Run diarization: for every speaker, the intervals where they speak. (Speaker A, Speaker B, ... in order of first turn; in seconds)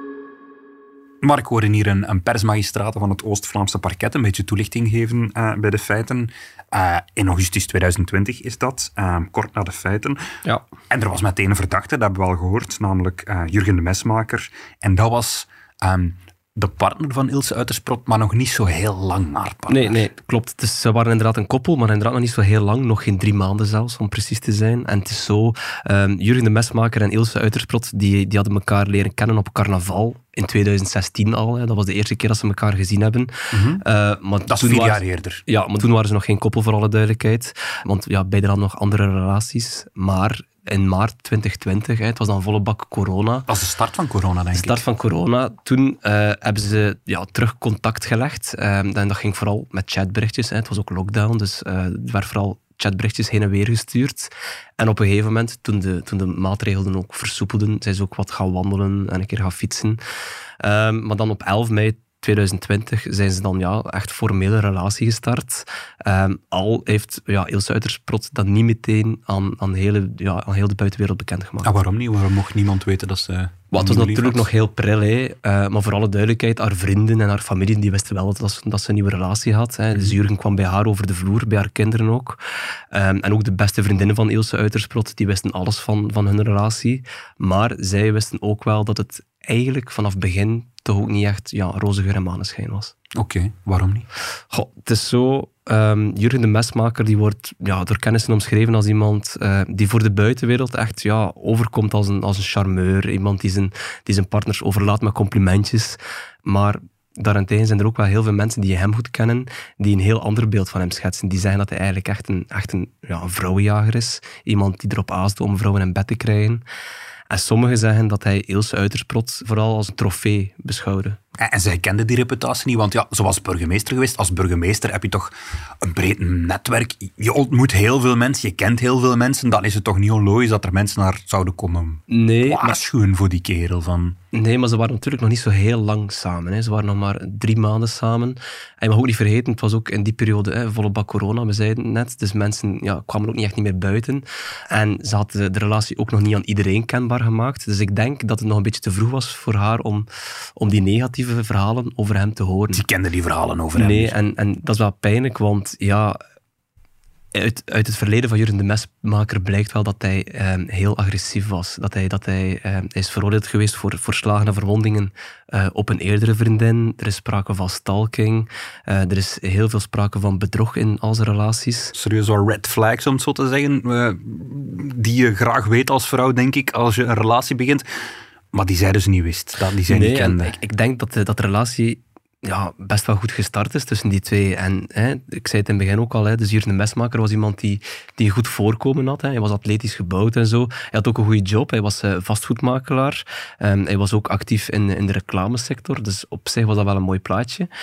Speaker A: 1.2-10.2, 10.9-20.1, 33.5-33.8, 34.5-35.4, 43.5-44.8, 71.6-74.5, 93.1-94.1, 121.4-134.2, 152.7-154.2, 171.9-180.6
Speaker B: 19.7-33.3, 33.8-43.5, 44.5-60.0, 60.6-71.7, 73.7-82.4, 82.9-92.9, 94.5-116.6, 117.3-121.2, 132.1-132.8, 134.3-152.8, 153.7-156.2, 157.3-171.9, 179.9-197.7